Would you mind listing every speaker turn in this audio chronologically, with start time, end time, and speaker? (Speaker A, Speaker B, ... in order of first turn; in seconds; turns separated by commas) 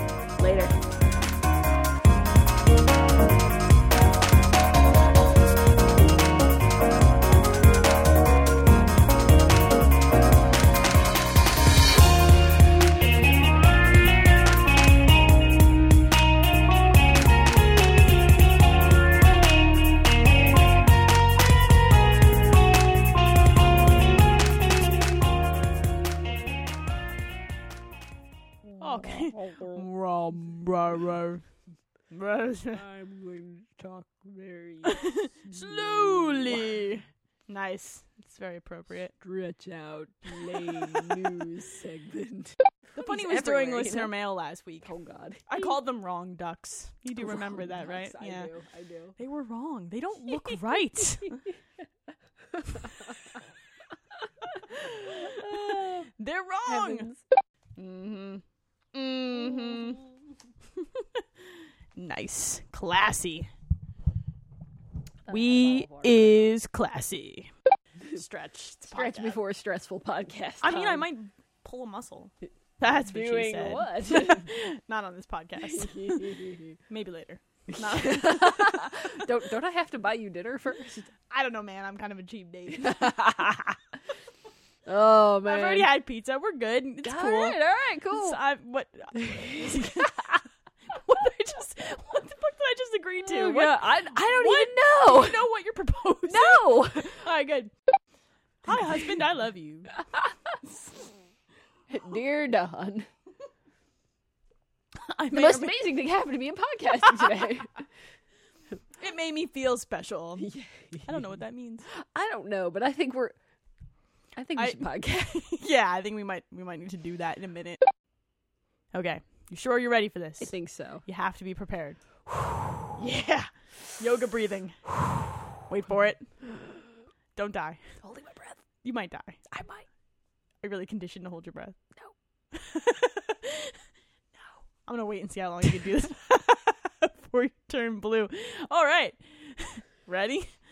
Speaker A: 0.4-0.7, Speaker A: 28.7-29.9, Speaker B: 28.8-31.4, Speaker B: 32.1-32.8, Speaker A: 32.7-36.8, Speaker B: 34.9-39.1, Speaker A: 39.2-44.1, Speaker B: 43.0-44.9, Speaker A: 44.8-45.7, Speaker B: 45.5-48.5, Speaker A: 47.2-49.2, Speaker B: 49.2-51.4, Speaker A: 52.5-53.2, Speaker A: 54.7-56.1, Speaker B: 55.1-57.1, Speaker A: 56.7-57.2, Speaker B: 57.8-58.4, Speaker B: 58.9-60.0, Speaker B: 60.8-63.5, Speaker A: 65.3-66.3, Speaker B: 65.3-67.5, Speaker B: 68.1-69.4, Speaker A: 68.9-71.0, Speaker B: 70.6-76.4, Speaker A: 73.0-74.5, Speaker A: 75.6-76.8, Speaker B: 76.9-79.2, Speaker A: 77.7-81.1, Speaker B: 81.3-83.2, Speaker A: 82.8-83.7, Speaker A: 84.9-85.9, Speaker B: 85.5-87.6, Speaker A: 87.0-88.4, Speaker B: 88.1-90.3, Speaker A: 89.5-90.1, Speaker B: 90.9-93.8, Speaker A: 93.2-95.4, Speaker B: 94.3-97.7, Speaker A: 96.3-97.2, Speaker B: 98.7-99.9, Speaker A: 101.9-103.1, Speaker B: 105.0-105.8, Speaker A: 105.3-107.9, Speaker B: 109.0-110.5, Speaker A: 110.4-111.0, Speaker B: 111.0-111.9, Speaker A: 111.9-113.3, Speaker A: 114.4-115.4, Speaker B: 114.6-117.8, Speaker B: 118.9-120.5, Speaker A: 120.4-121.0, Speaker B: 121.0-122.0, Speaker B: 123.0-124.8, Speaker B: 125.7-126.3, Speaker B: 127.4-127.8, Speaker A: 128.0-128.6, Speaker B: 128.8-129.4, Speaker A: 129.5-129.8, Speaker B: 130.6-131.8, Speaker B: 132.5-133.8, Speaker B: 134.8-140.5